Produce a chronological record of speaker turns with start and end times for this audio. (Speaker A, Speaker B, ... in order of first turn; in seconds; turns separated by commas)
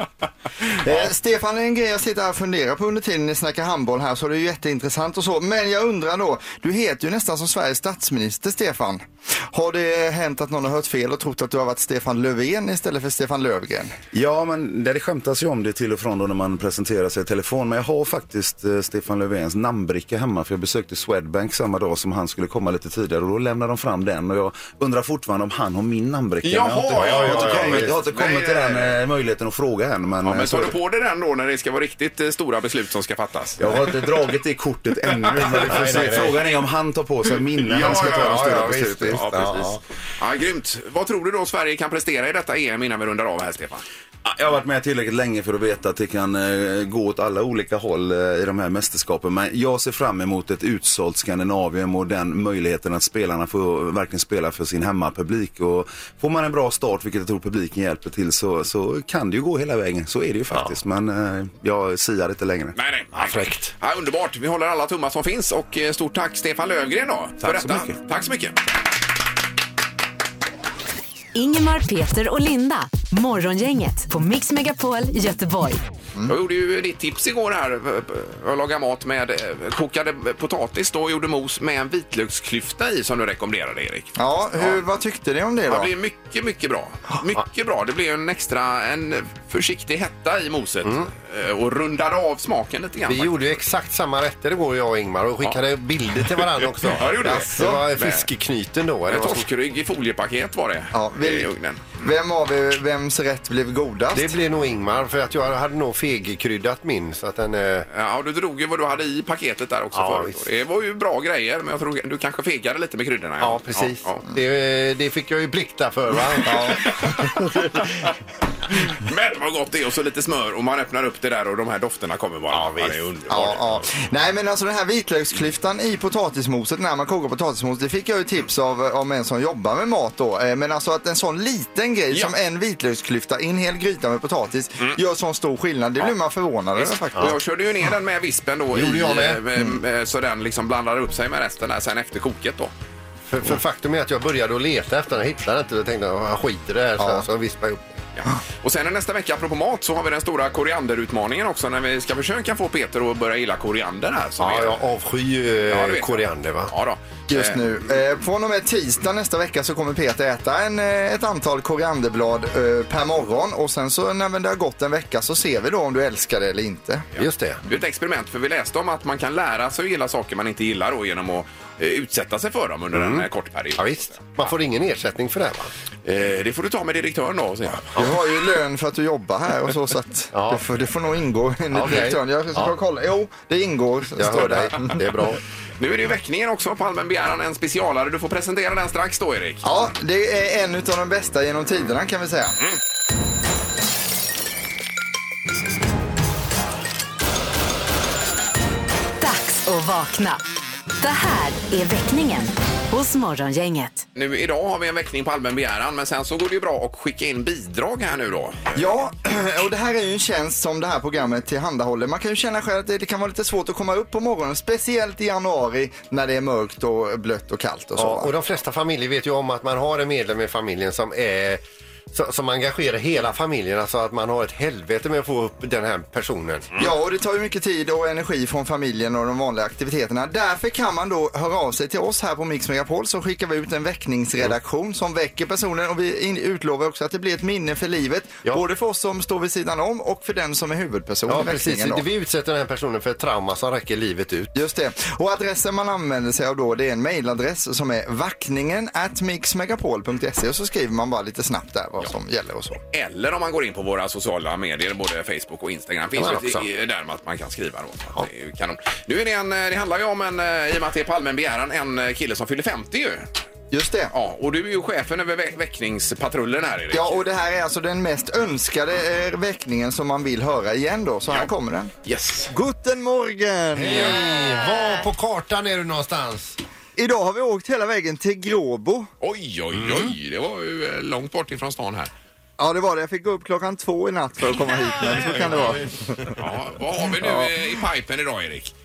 Speaker A: 0.9-13.9, Speaker B: 14.1-30.8, Speaker C: 26.4-29.0, Speaker D: 26.9-28.0, Speaker C: 30.2-33.6, Speaker B: 33.6-39.7, Speaker D: 35.3-36.4, Speaker D: 37.6-39.8, Speaker C: 37.7-43.8, Speaker B: 44.2-62.8, Speaker C: 62.8-68.6, Speaker D: 63.1-63.7, Speaker B: 67.4-67.9, Speaker E: 71.3-75.8, Speaker C: 76.2-84.8, Speaker A: 84.2-85.9, Speaker C: 85.7-93.6, Speaker D: 93.0-99.5, Speaker C: 96.3-98.3, Speaker A: 97.2-97.8, Speaker C: 99.1-102.0, Speaker A: 100.9-104.3, Speaker D: 104.1-107.9, Speaker C: 107.9-114.2, Speaker D: 109.9-110.4, Speaker D: 113.4-117.8, Speaker A: 116.4-116.8, Speaker C: 116.8-117.8, Speaker C: 118.8-123.6, Speaker D: 122.5-123.0, Speaker A: 123.3-137.3, Speaker C: 136.8-142.7, Speaker D: 138.7-139.4, Speaker D: 143.3-147.8, Speaker A: 147.0-147.2, Speaker C: 148.2-154.8, Speaker D: 154.4-156.7, Speaker C: 155.7-157.6, Speaker A: 157.3-167.0, Speaker C: 167.1-173.9, Speaker D: 167.2-167.6, Speaker D: 172.9-175.7, Speaker C: 176.0-178.0, Speaker A: 178.0-185.0, Speaker D: 180.3-180.6, Speaker D: 181.7-182.7, Speaker D: 184.2-185.4, Speaker C: 185.8-189.6, Speaker A: 189.6-192.6, Speaker E: 199.2-200.4, Speaker E: 201.0-204.0, Speaker C: 204.1-208.8, Speaker A: 208.7-218.3, Speaker D: 218.0-221.6, Speaker D: 222.1-226.7, Speaker A: 226.8-242.1, Speaker D: 241.3-244.5, Speaker A: 244.5-252.8, Speaker C: 252.9-263.3, Speaker D: 256.1-256.6, Speaker A: 263.7-264.1, Speaker C: 264.1-267.2, Speaker A: 266.9-271.9, Speaker C: 272.0-272.5, Speaker A: 272.5-274.2, Speaker D: 273.7-276.6, Speaker A: 276.9-279.1, Speaker C: 279.2-282.1, Speaker D: 279.8-280.1, Speaker A: 282.6-286.4, Speaker C: 286.3-288.7, Speaker A: 287.2-287.5